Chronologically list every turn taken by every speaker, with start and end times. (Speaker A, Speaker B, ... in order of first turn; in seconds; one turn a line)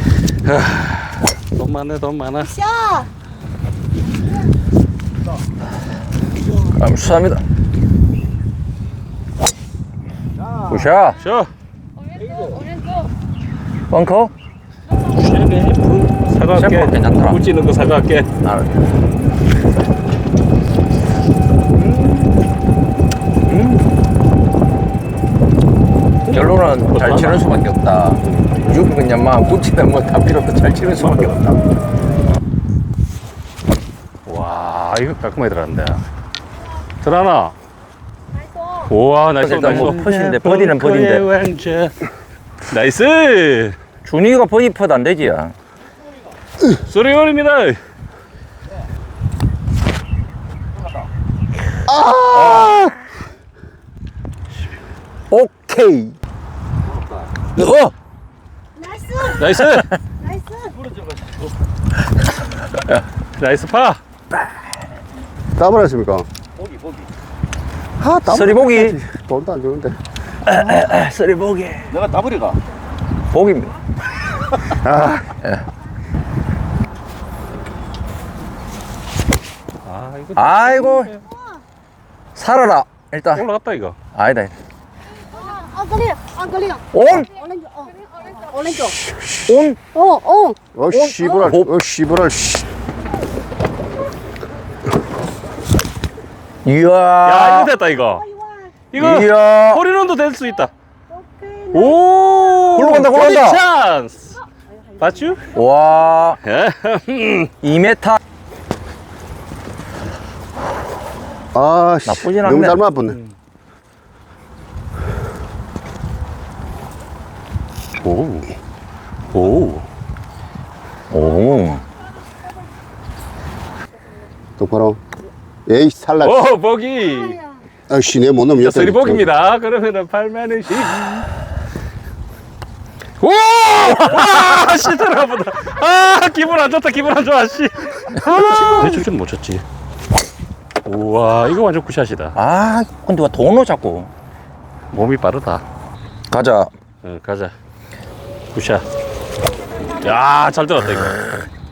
Speaker A: 0.4-2.5
Speaker B: 2.5-3.1
Speaker C: 6.7-7.4
Speaker C: 10.6-11.2
Speaker A: 11.2-11.5
Speaker B: 12.4-13.0
Speaker C: 13.9-14.3
Speaker A: 15.1-18.3
Speaker C: 16.6-17.4
Speaker C: 18.4-18.8
Speaker A: 26.3-27.5
Speaker C: 26.3-31.6
Speaker A: 31.0-31.3
Speaker A: 34.2-36.0
Speaker A: 37.0-37.5
Speaker A: 38.8-42.0
Speaker C: 39.4-41.2
Speaker A: 42.7-43.8
Speaker C: 44.0-45.5
Speaker A: 46.9-47.8
Speaker D: 51.9-52.9
Speaker C: 55.3-56.1
Speaker C: 57.5-57.9
Speaker B: 58.8-59.4
Speaker A: 59.3-59.9
Speaker B: 60.2-60.8
Speaker A: 63.4-64.0
Speaker D: 65.6-66.3
Speaker D: 68.0-70.0
Speaker C: 68.3-69.0
Speaker C: 70.4-72.0
Speaker C: 73.3-73.8
Speaker D: 74.8-75.3
Speaker A: 79.8-81.1
Speaker C: 80.3-81.1
Speaker B: 81.2-81.5
Speaker C: 82.3-83.5
Speaker A: 83.3-84.0
Speaker C: 84.1-84.5
Speaker B: 85.3-89.0
Speaker C: 86.9-87.3
Speaker D: 89.1-89.5
Speaker C: 89.5-89.8
Speaker B: 89.9-90.6
Speaker D: 90.7-92.7
Speaker C: 90.9-91.7
Speaker C: 96.6-97.7
Speaker A: 97.2-98.2
Speaker B: 98.2-98.7
Speaker A: 98.9-100.7
Speaker C: 99.0-99.8
Speaker B: 101.1-101.9
Speaker A: 101.7-104.4
Speaker C: 102.7-103.6
Speaker A: 105.0-105.5
Speaker C: 105.5-106.4
Speaker A: 106.4-107.5
Speaker C: 107.6-108.2
Speaker D: 111.5-113.2
Speaker C: 112.1-112.8
Speaker A: 118.0-118.5
Speaker A: 119.3-119.8
Speaker C: 121.1-121.8
Speaker D: 124.6-125.0
Speaker D: 125.7-126.4
Speaker A: 126.2-127.4
Speaker D: 127.9-129.2
Speaker A: 128.6-131.3
Speaker A: 133.2-139.6
Speaker C: 138.1-139.1
Speaker A: 140.8-142.4
Speaker C: 142.3-144.1
Speaker A: 144.9-145.6
Speaker C: 146.3-146.7
Speaker A: 147.0-147.5
Speaker A: 148.5-148.8
Speaker A: 150.0-151.4